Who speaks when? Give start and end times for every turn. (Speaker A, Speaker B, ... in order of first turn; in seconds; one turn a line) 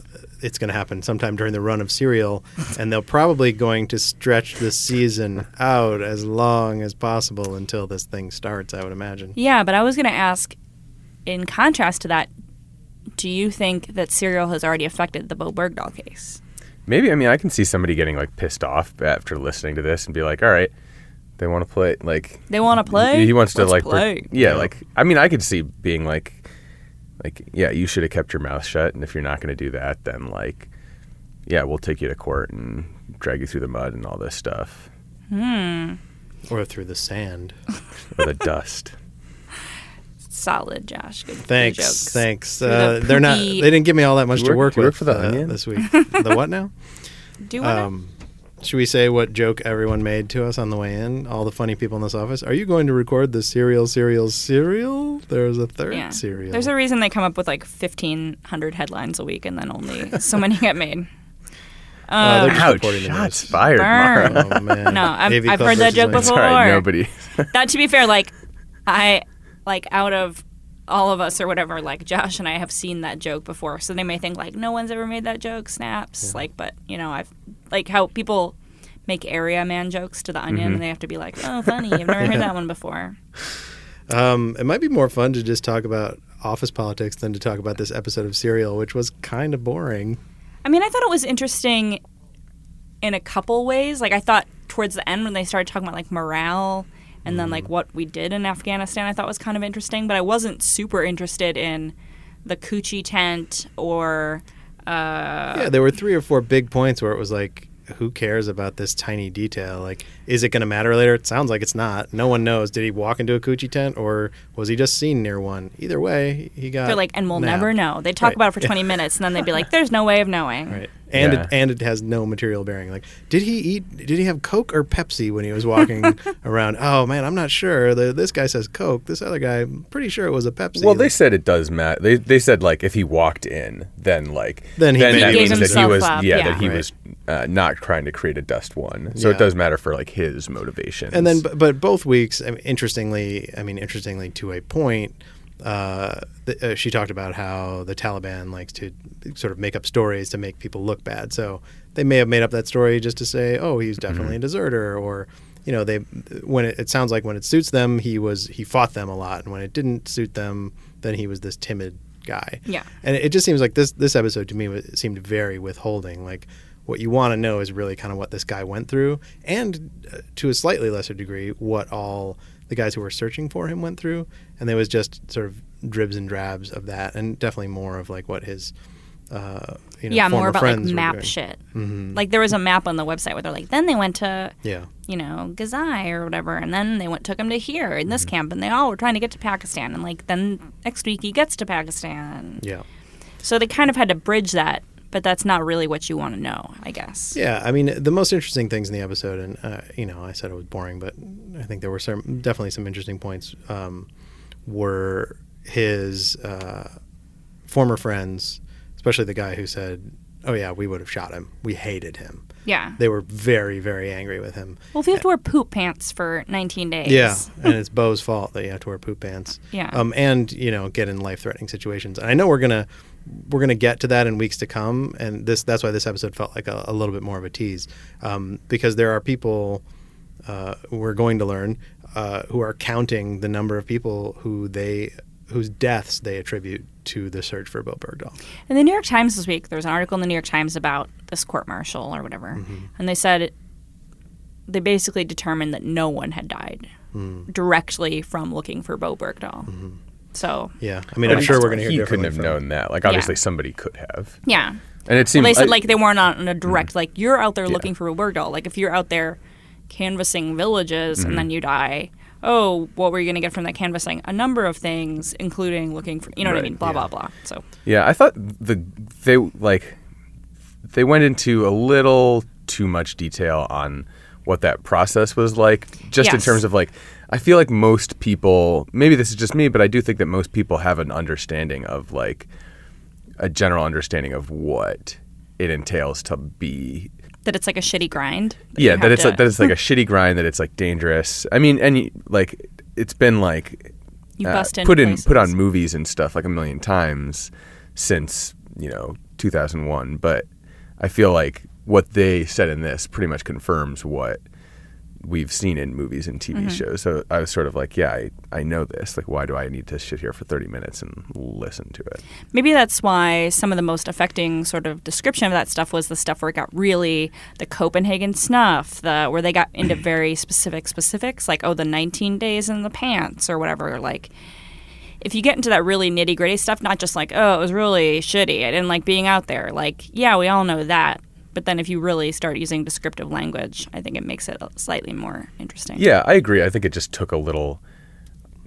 Speaker A: 0.4-9.3
Speaker B: 9.3-10.6
Speaker B: 11.2-12.3
Speaker B: 13.2-16.4
Speaker C: 16.9-20.7
Speaker C: 21.4-26.4
Speaker B: 22.5-24.3
Speaker A: 24.3-24.7
Speaker C: 27.2-30.7
Speaker C: 31.5-34.9
Speaker B: 35.3-36.0
Speaker A: 36.5-37.5
Speaker C: 38.1-38.9
Speaker B: 40.3-43.7
Speaker A: 41.4-46.7
Speaker C: 44.3-45.6
Speaker B: 45.8-46.1
Speaker B: 47.4-47.9
Speaker A: 47.6-56.7
Speaker B: 55.9-61.1
Speaker B: 62.1-62.7
Speaker A: 62.2-63.6
Speaker C: 62.4-64.9
Speaker B: 63.7-66.9
Speaker A: 64.1-66.3
Speaker C: 66.0-67.5
Speaker B: 67.5-68.3
Speaker B: 68.8-78.5
Speaker B: 79.1-83.2
Speaker C: 80.5-80.8
Speaker A: 82.2-82.5
Speaker A: 84.1-90.2
Speaker B: 90.6-92.0
Speaker B: 93.0-105.7
Speaker A: 97.2-97.7
Speaker A: 105.5-118.9
Speaker B: 116.8-120.8
Speaker A: 120.7-131.1
Speaker C: 121.1-121.5
Speaker C: 130.7-141.4
Speaker A: 134.8-136.1
Speaker B: 135.1-136.6
Speaker A: 136.6-136.8
Speaker A: 139.1-139.5
Speaker A: 141.1-178.7
Speaker A: 179.3-182.2
Speaker B: 180.1-181.6
Speaker B: 182.1-184.5
Speaker A: 184.6-184.9
Speaker B: 185.1-192.6
Speaker B: 193.4-197.4
Speaker A: 197.3-204.1
Speaker A: 204.7-206.9
Speaker A: 207.7-212.4
Speaker B: 212.6-213.0
Speaker A: 213.0-215.2
Speaker B: 214.9-217.5
Speaker A: 217.0-229.8
Speaker B: 219.7-220.0
Speaker A: 230.4-238.4
Speaker B: 238.7-243.5
Speaker A: 242.6-242.9
Speaker B: 244.7-246.9
Speaker A: 247.1-247.5
Speaker B: 247.5-249.7
Speaker A: 249.7-250.0
Speaker B: 250.3-251.8
Speaker A: 250.8-252.6
Speaker C: 251.2-254.4
Speaker B: 253.0-253.4
Speaker B: 254.4-254.8
Speaker C: 255.1-255.9
Speaker B: 255.3-267.6
Speaker C: 261.2-261.5
Speaker C: 266.4-266.9
Speaker C: 267.8-270.0
Speaker C: 270.9-282.5
Speaker B: 276.2-276.6
Speaker C: 283.4-287.1
Speaker B: 287.4-289.7
Speaker C: 288.8-293.9
Speaker B: 294.4-295.5
Speaker C: 294.4-300.5
Speaker C: 301.0-304.4
Speaker C: 305.2-312.2
Speaker B: 306.5-306.8
Speaker B: 312.5-324.3
Speaker B: 325.2-336.1
Speaker C: 335.9-337.8